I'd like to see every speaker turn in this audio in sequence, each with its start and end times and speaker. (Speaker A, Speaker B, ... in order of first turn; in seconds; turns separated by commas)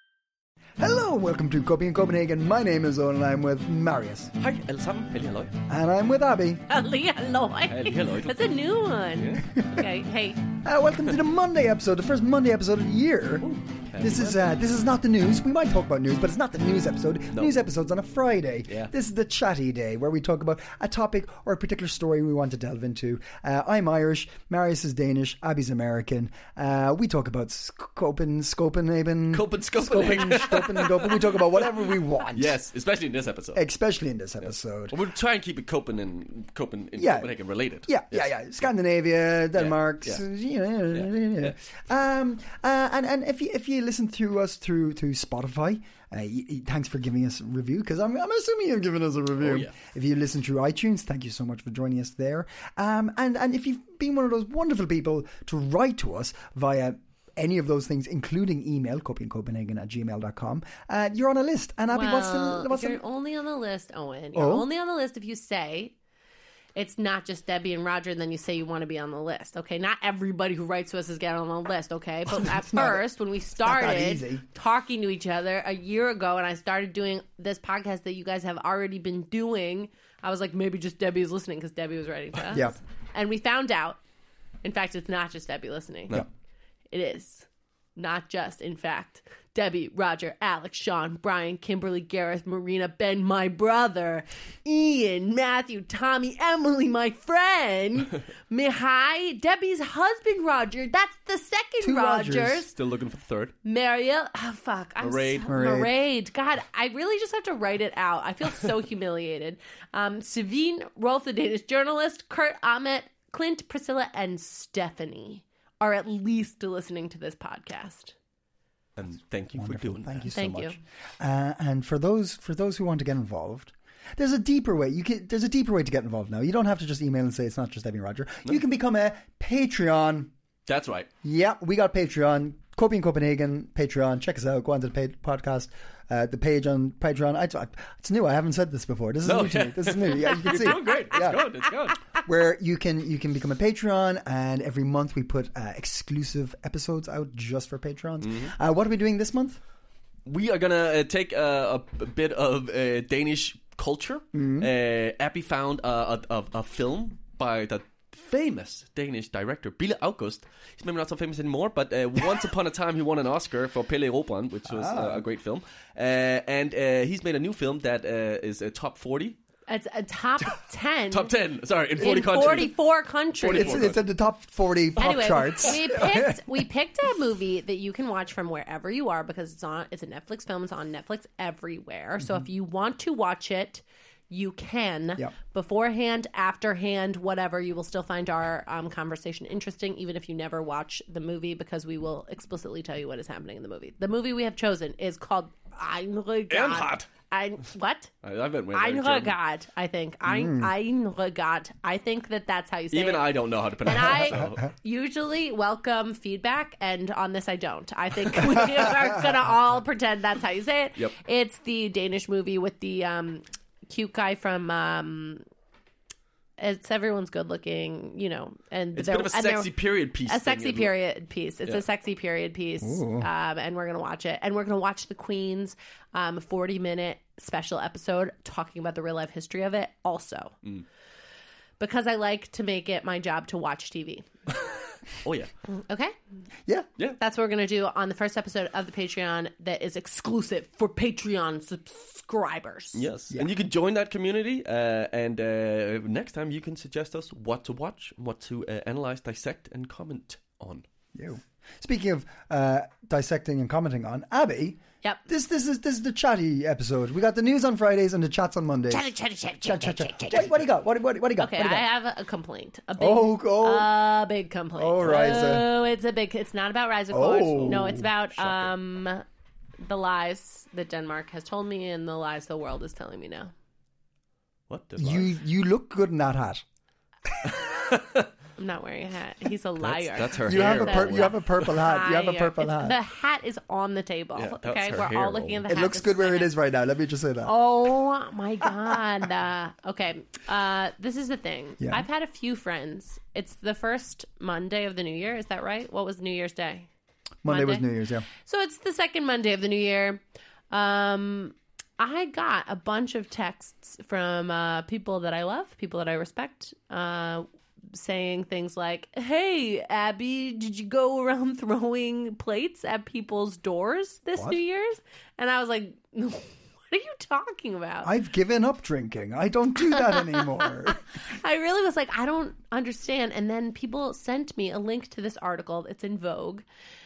Speaker A: 0.8-4.3, Speaker B: 4.4-5.5, Speaker A: 5.7-6.6, Speaker C: 6.7-10.4, Speaker B: 7.7-8.5, Speaker B: 9.2-9.4, Speaker A: 10.6-13.5, Speaker B: 13.4-14.5, Speaker A: 14.0-32.6, Speaker B: 29.3-31.3, Speaker B: 32.3-33.6, Speaker A: 33.5-34.9, Speaker B: 34.9-38.3, Speaker A: 37.0-37.3, Speaker A: 37.9-63.0, Speaker B: 39.5-40.2, Speaker B: 40.9-41.5, Speaker B: 49.4-49.7, Speaker C: 61.9-65.9, Speaker A: 64.3-64.7, Speaker C: 66.8-84.0, Speaker A: 72.5-73.0, Speaker A: 73.6-74.4, Speaker C: 84.6-86.2, Speaker C: 86.9-102.7, Speaker A: 101.8-102.6, Speaker B: 102.7-103.5, Speaker C: 103.6-118.1, Speaker B: 105.0-105.5, Speaker A: 105.5-105.9, Speaker B: 119.0-120.3, Speaker A: 119.5-130.3, Speaker C: 120.3-120.8, Speaker B: 130.7-131.1, Speaker A: 131.2-141.5, Speaker B: 139.2-142.0, Speaker C: 140.2-140.7, Speaker A: 142.2-149.6, Speaker B: 148.2-148.5, Speaker B: 150.2-169.4, Speaker A: 154.3-154.7, Speaker A: 164.7-165.2, Speaker C: 169.7-171.3, Speaker B: 171.1-172.8, Speaker A: 172.0-172.7, Speaker C: 172.0-173.8, Speaker B: 173.3-174.0, Speaker A: 173.5-176.6, Speaker C: 175.0-198.1, Speaker B: 196.5-197.1, Speaker B: 198.2-199.3, Speaker C: 198.7-215.4, Speaker A: 200.2-200.7, Speaker B: 202.9-204.6, Speaker C: 216.6-219.7, Speaker B: 218.9-220.9, Speaker C: 220.2-230.5, Speaker A: 222.8-223.3, Speaker C: 231.8-234.3, Speaker B: 235.2-235.5, Speaker C: 235.7-236.1, Speaker C: 237.2-243.0, Speaker B: 242.9-250.8, Speaker A: 251.1-259.1, Speaker C: 258.9-260.5, Speaker A: 259.6-261.8, Speaker C: 261.4-269.2, Speaker A: 263.0-263.9, Speaker A: 264.8-265.7, Speaker B: 265.0-265.4, Speaker A: 267.1-268.1, Speaker B: 267.5-267.8, Speaker C: 269.8-273.5, Speaker B: 274.7-275.3, Speaker A: 275.0-276.6, Speaker B: 277.6-278.3, Speaker C: 278.6-286.5, Speaker B: 279.8-281.4, Speaker A: 280.4-283.0, Speaker B: 284.4-285.6, Speaker A: 285.7-287.5, Speaker C: 287.4-296.9, Speaker A: 291.8-292.1, Speaker A: 297.4-298.2, Speaker C: 297.5-318.1, Speaker A: 318.0-321.0, Speaker C: 319.9-326.6